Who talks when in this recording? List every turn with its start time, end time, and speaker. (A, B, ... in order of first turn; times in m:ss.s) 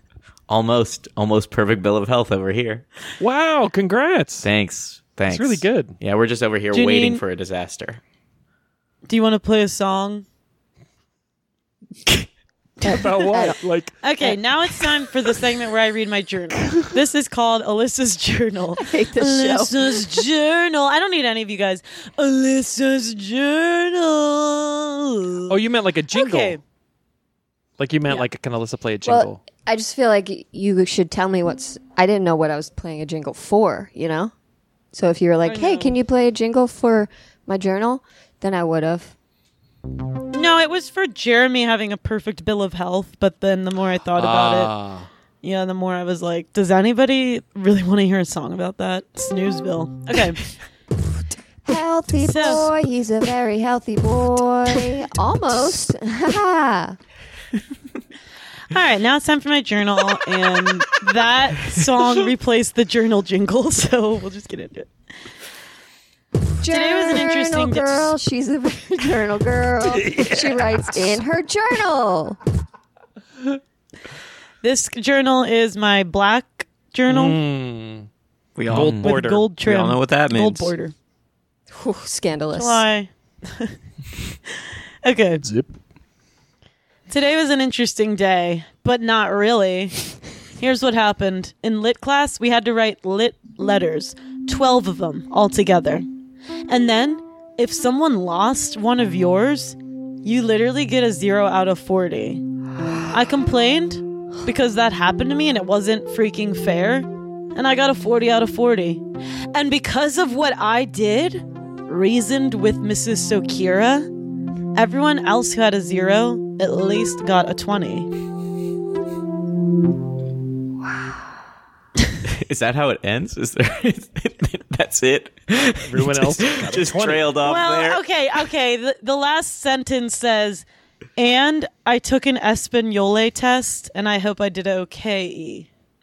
0:00.5-0:02.9 A
0:03.2-0:04.5 B
0:04.4-0:08.0 A
0:05.3-0:06.0 B
0:06.7-0:07.2 C
0:09.0-0:10.2 C
0:12.8-0:13.6 D
0:12.9-0:13.9 B
0:14.0-0:25.6 C
0:18.8-0:20.2 D
0:25.5-0:26.6 B
0:26.1-0:26.6 C
0:27.8-0:29.4 B
0:29.0-0:34.3 D
0:34.9-0:39.1 D
0:35.4-0:36.0 C
0:40.3-0:44.7 C
0:44.1-0:45.1 B
0:45.4-0:50.4 C
0:51.6-0:57.0 D
0:52.2-0:52.7 C
0:58.7-1:04.9 C
1:06.6-1:12.4 D
1:06.7-1:08.1 C
1:09.8-1:10.7 B
1:14.6-1:17.4 C
1:17.1-1:18.1 B
1:18.6-1:20.7 E
1:18.6-1:19.5 B
1:18.7-1:19.1 A
1:19.0-1:20.9 C
1:21.7-1:22.8 D
1:22.5-1:23.7 C
1:25.0-1:25.4 C
1:25.4-1:25.7 B
1:27.1-1:30.0 C
1:30.6-1:36.0 C
1:36.7-1:42.4 C
1:43.1-1:54.1 C
1:54.7-1:58.1 C
2:02.3-2:08.0 A
2:05.8-2:07.3 B
2:07.4-2:10.6 C
2:11.2-2:15.7 C